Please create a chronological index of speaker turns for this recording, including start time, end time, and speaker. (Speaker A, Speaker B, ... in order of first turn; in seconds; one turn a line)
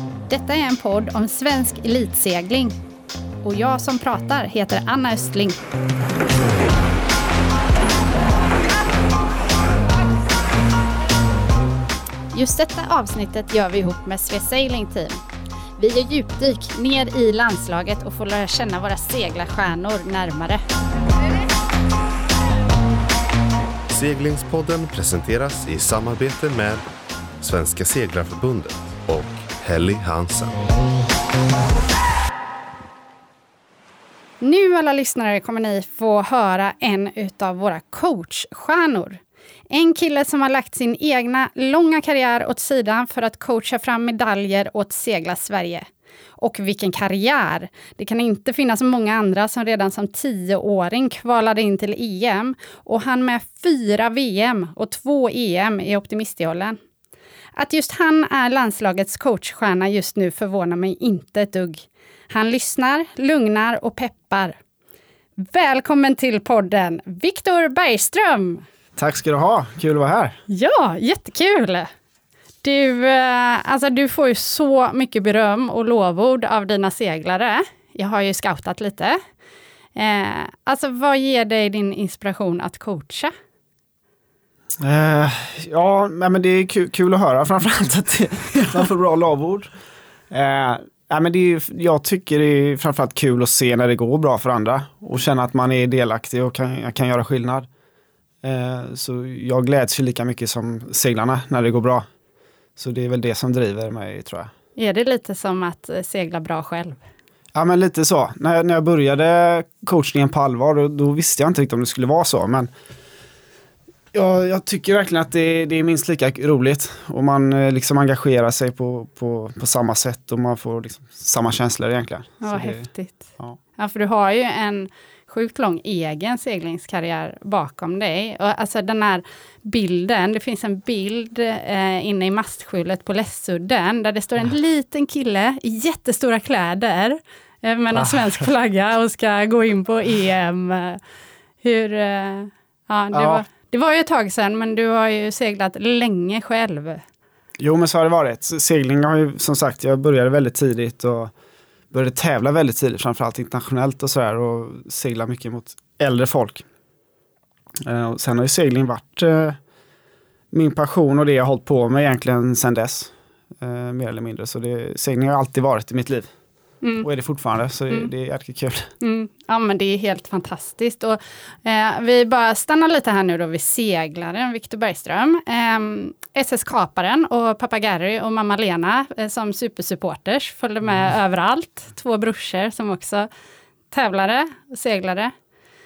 Speaker A: 0.3-2.8
Speaker A: 3.4-5.6
Speaker A: 12.3-15.2
Speaker A: 15.8-20.6
Speaker B: 23.9-26.8
Speaker B: 27.4-30.5
Speaker A: 34.4-39.2
Speaker A: 39.7-45.9
Speaker A: 46.4-56.8
Speaker A: 57.5-64.6
Speaker A: 65.4-68.6
Speaker C: 69.0-70.4
Speaker A: 70.5-71.9
Speaker A: 72.6-79.2
Speaker A: 79.9-83.3
Speaker C: 84.8-89.7
Speaker C: 90.3-97.7
Speaker C: 98.4-102.0
Speaker C: 102.8-104.5
Speaker A: 104.8-107.0
Speaker C: 107.5-112.7
Speaker C: 114.1-122.9
Speaker A: 122.4-123.2
Speaker A: 123.8-141.0
Speaker C: 137.9-138.5
Speaker A: 141.6-147.0
Speaker C: 143.1-143.4
Speaker C: 147.6-151.3
Speaker C: 151.9-156.6
Speaker C: 157.8-159.6
Speaker C: 160.5-166.3
Speaker A: 166.8-167.1
Speaker C: 167.0-168.9
Speaker A: 169.0-183.3
Speaker A: 183.9-185.3